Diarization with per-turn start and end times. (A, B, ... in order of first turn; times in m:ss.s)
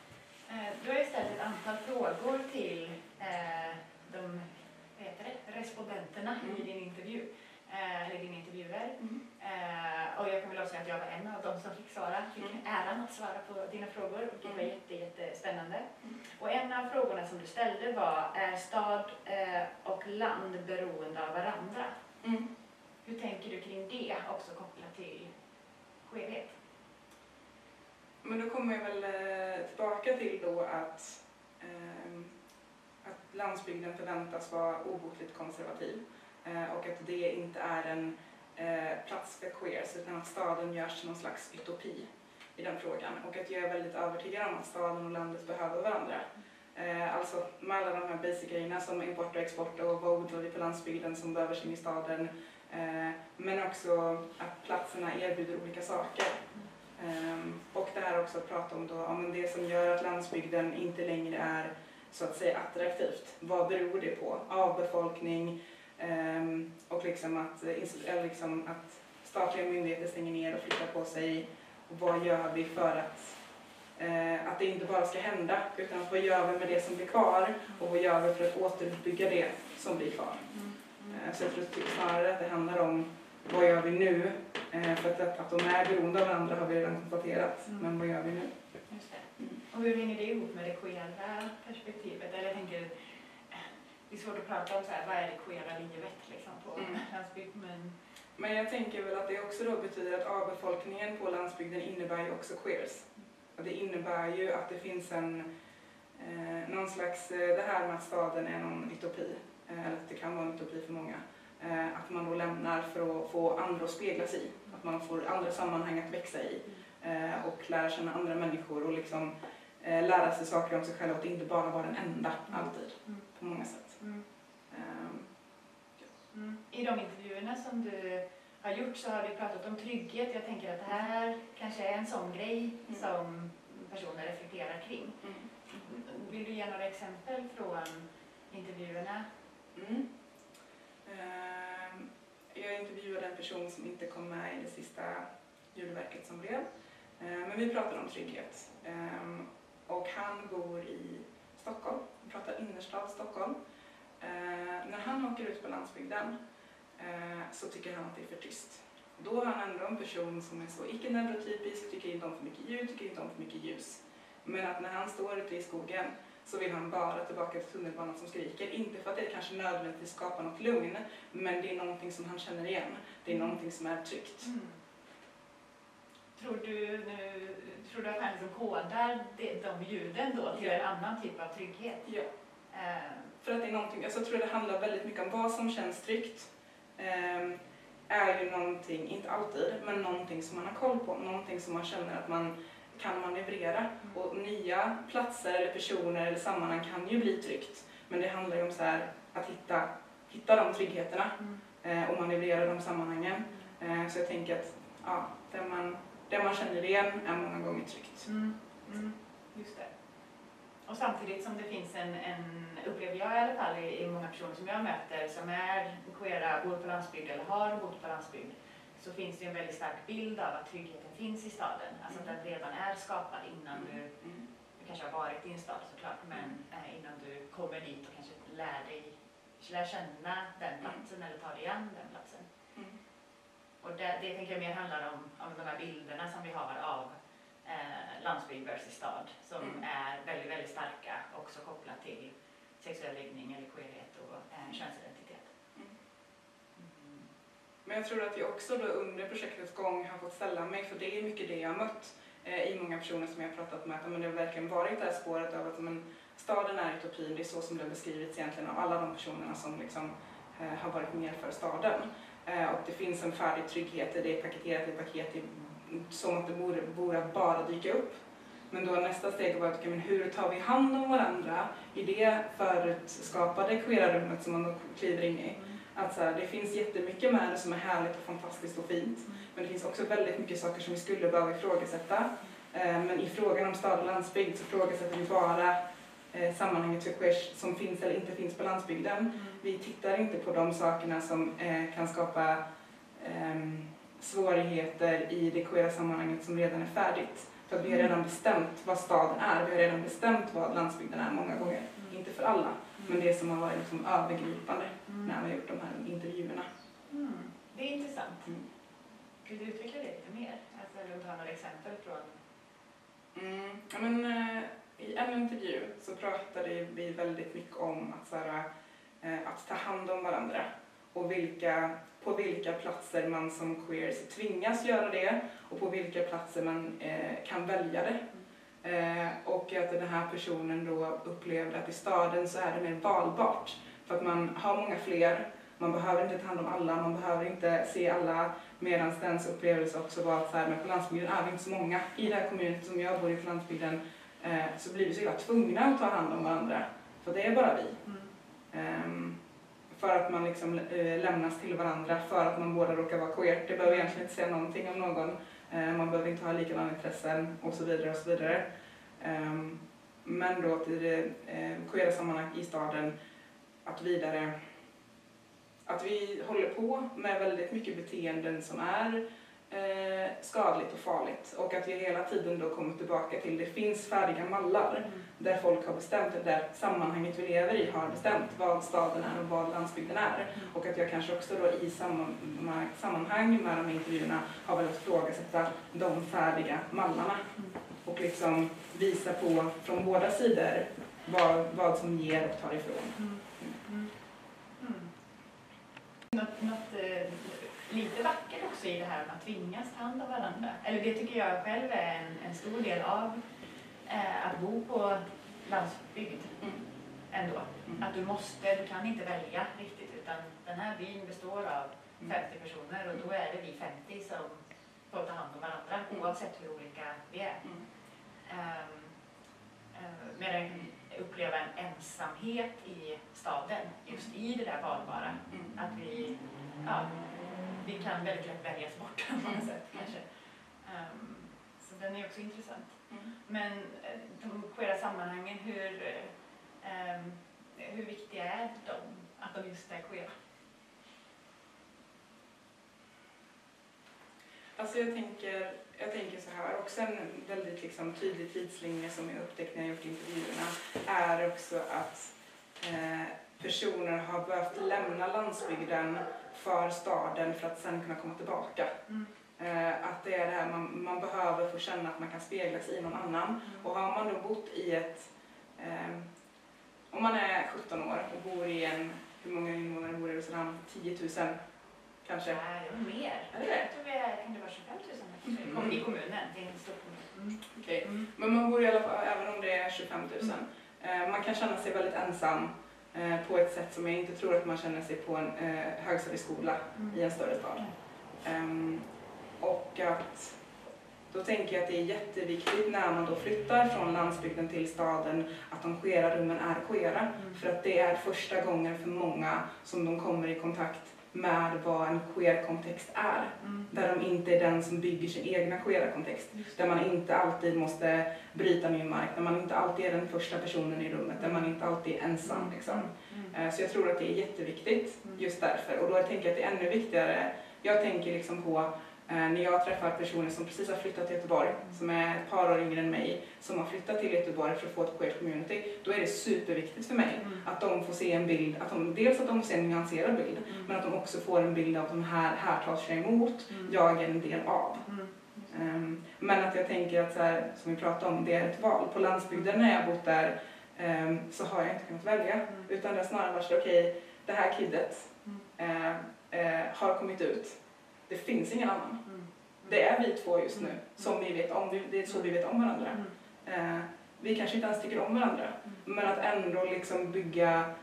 0:00.5-0:21.9 A
0:22.2-0:22.5 B
0:23.0-0:25.3 A
0:26.0-0:26.6 A
0:28.2-0:32.3 B
0:33.0-1:13.4 B
1:14.0-1:20.5 B
1:20.5-1:21.2 A
1:21.1-1:28.5 B
1:28.9-1:38.0 A
1:38.4-1:45.5 B
1:46.2-2:04.0 B
2:04.7-2:05.3 B
2:06.3-2:19.3 A
2:19.8-2:20.1 B
2:21.0-2:26.6 B
2:27.2-2:33.5 B
2:34.2-2:36.3 B
2:37.0-2:54.5 B
2:54.4-2:54.8 A
2:56.4-3:02.0 A
3:02.7-3:03.4 A
3:03.4-3:28.3 B
3:28.3-3:29.9 A
3:30.9-3:44.1 A
3:44.8-3:52.5 A
3:53.8-3:57.1 A
3:57.6-4:05.5 A
4:06.8-4:07.3 A
4:07.8-4:45.8 B
4:46.3-4:52.6 B
4:53.2-5:06.7 B
5:07.1-5:08.6 A
5:09.5-5:12.4 A
5:13.3-5:18.7 B
5:19.2-5:28.3 B
5:28.8-5:48.0 B
5:48.7-5:49.4 B
5:49.9-5:58.6 B
5:59.2-6:03.1 B
6:03.8-6:04.6 B
6:05.8-6:27.5 B
6:28.0-6:33.8 B
6:33.2-6:34.1 A
6:34.8-6:35.1 A
6:36.3-6:43.4 A
6:44.1-6:46.6 A
6:47.3-6:57.7 A
6:58.5-6:59.1 A
6:59.9-7:07.2 A
7:07.8-7:10.3 A
7:10.8-7:20.3 A
7:24.8-7:39.0 B
7:39.6-7:46.3 B
7:47.1-7:51.6 B
7:52.2-7:52.6 B
7:52.4-7:58.2 A
7:53.5-7:53.9 B
7:57.7-8:07.8 B
8:08.4-8:09.0 B
8:09.6-8:10.6 B
8:11.3-8:55.1 B
8:23.6-8:23.9 A
8:32.5-8:33.5 A
8:55.1-8:55.7 A
8:55.7-9:09.2 B
9:09.8-9:17.9 B